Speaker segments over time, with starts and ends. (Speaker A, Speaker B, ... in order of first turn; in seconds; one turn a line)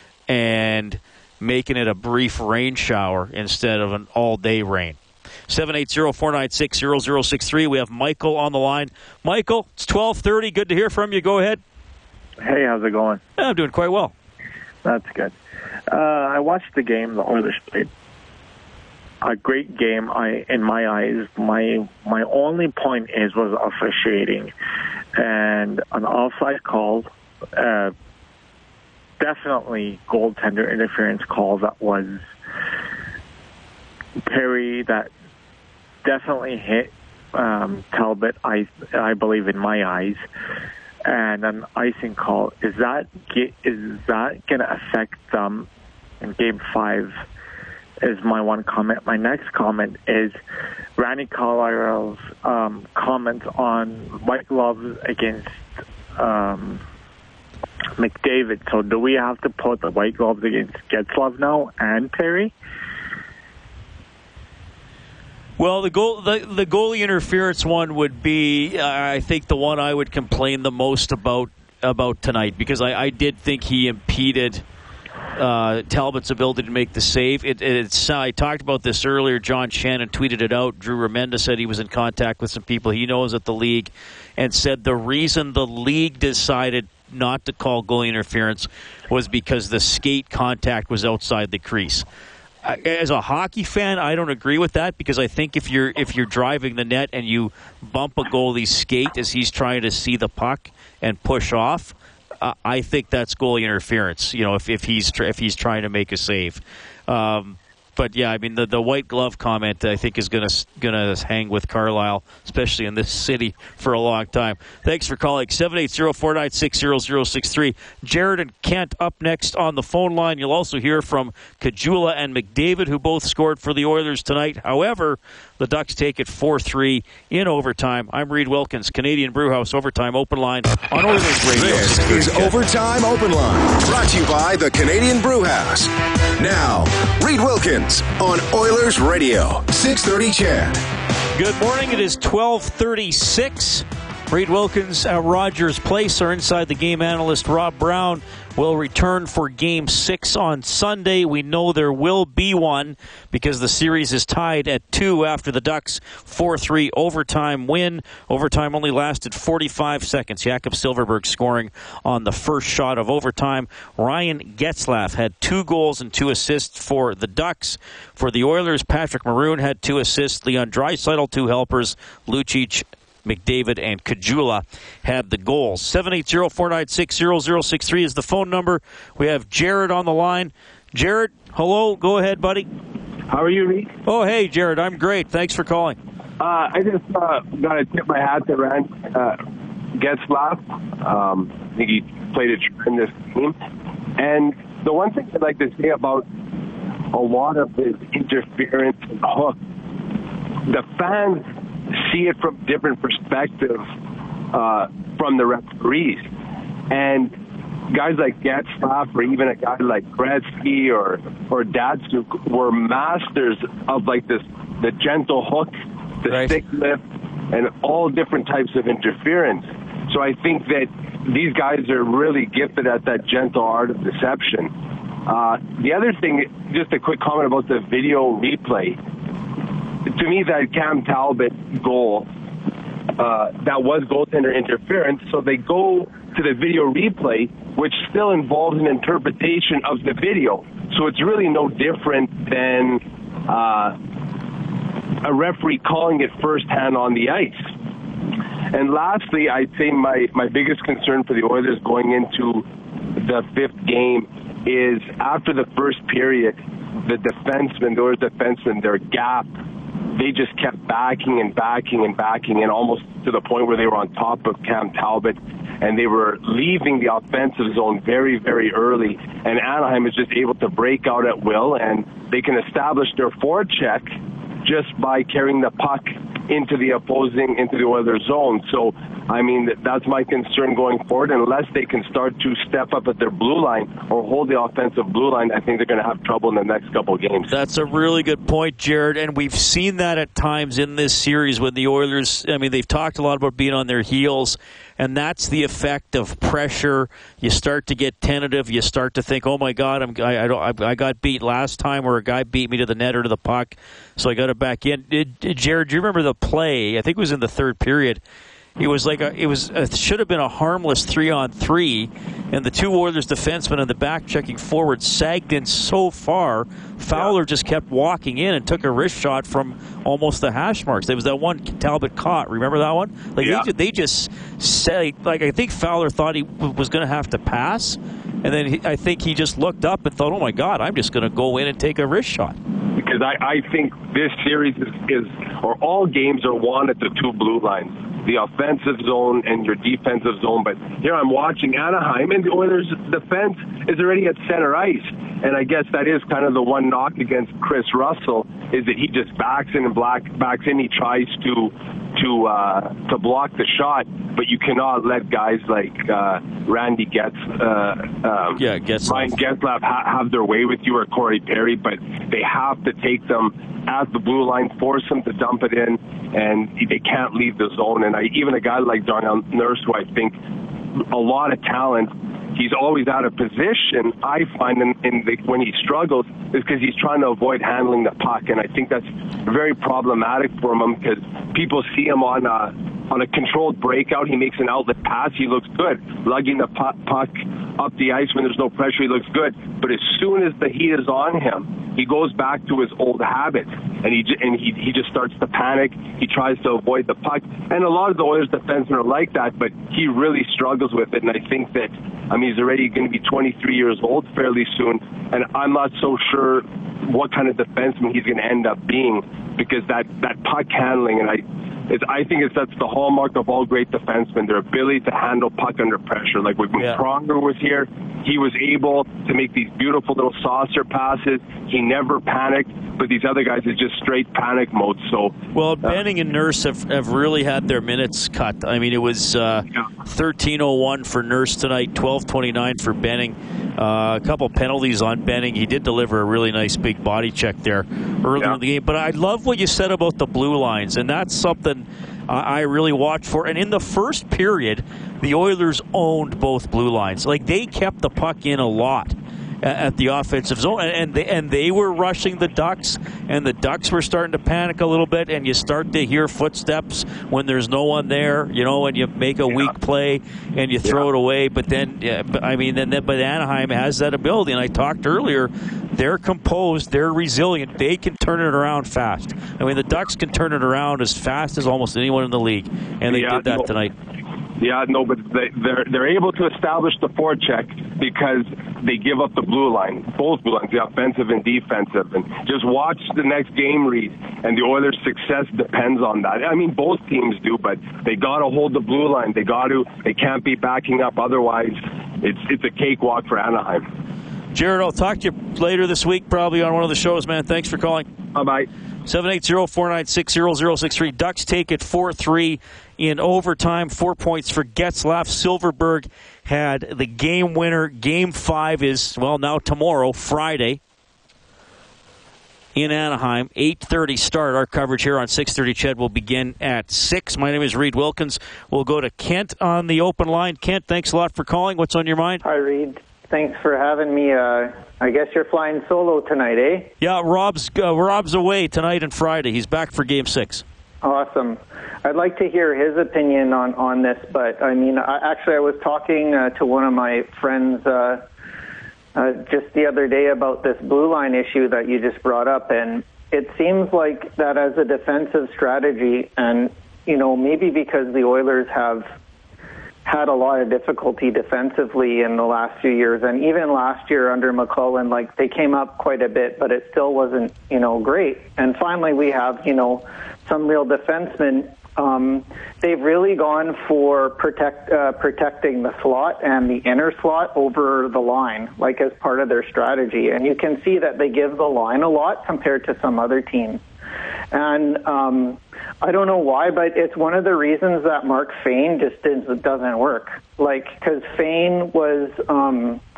Speaker A: 0.3-11.6
Speaker B: 12.4-13.2
Speaker A: 13.4-14.1
Speaker B: 14.8-15.3
Speaker B: 15.9-17.9
Speaker B: 19.2-24.5
Speaker B: 25.2-27.9
Speaker B: 29.2-32.2
Speaker B: 34.2-35.1
Speaker B: 36.0-40.2
Speaker B: 41.1-45.7
Speaker B: 46.2-47.1
Speaker B: 48.0-50.4
Speaker B: 51.0-55.5
Speaker B: 56.2-56.8
Speaker B: 58.0-62.5
Speaker A: 65.6-74.6
Speaker A: 75.3-92.0
Speaker A: 92.6-132.6
Speaker C: 131.6-140.8
Speaker A: 141.3-182.7
Speaker D: 183.3-183.9
Speaker A: 184.1-186.0
Speaker D: 186.4-189.4
Speaker D: 189.9-193.5
Speaker D: 194.2-196.2
Speaker D: 197.1-199.5
Speaker D: 200.6-203.8
Speaker D: 204.5-206.3
Speaker D: 206.9-207.3
Speaker D: 207.9-224.7
Speaker A: 216.3-216.6
Speaker D: 225.2-229.0
Speaker D: 230.1-232.3
Speaker D: 233.2-243.9
Speaker D: 245.2-247.6
Speaker D: 248.7-252.6
Speaker D: 253.2-259.5
Speaker D: 260.1-274.1
Speaker D: 274.6-287.5
Speaker A: 287.5-308.2
Speaker A: 308.8-332.6
Speaker D: 323.4-323.7
Speaker D: 332.9-370.4
Speaker A: 358.6-359.4
Speaker D: 371.0-425.3
Speaker A: 425.5-473.9
Speaker D: 473.1-473.7
Speaker D: 474.6-493.9
Speaker A: 494.5-498.1
Speaker D: 498.3-498.7
Speaker A: 499.1-510.8
Speaker A: 512.7-522.4
Speaker E: 522.4-526.9
Speaker A: 527.0-530.6
Speaker E: 531.0-538.2
Speaker E: 539.1-549.1
Speaker E: 550.0-573.8
Speaker E: 574.5-583.0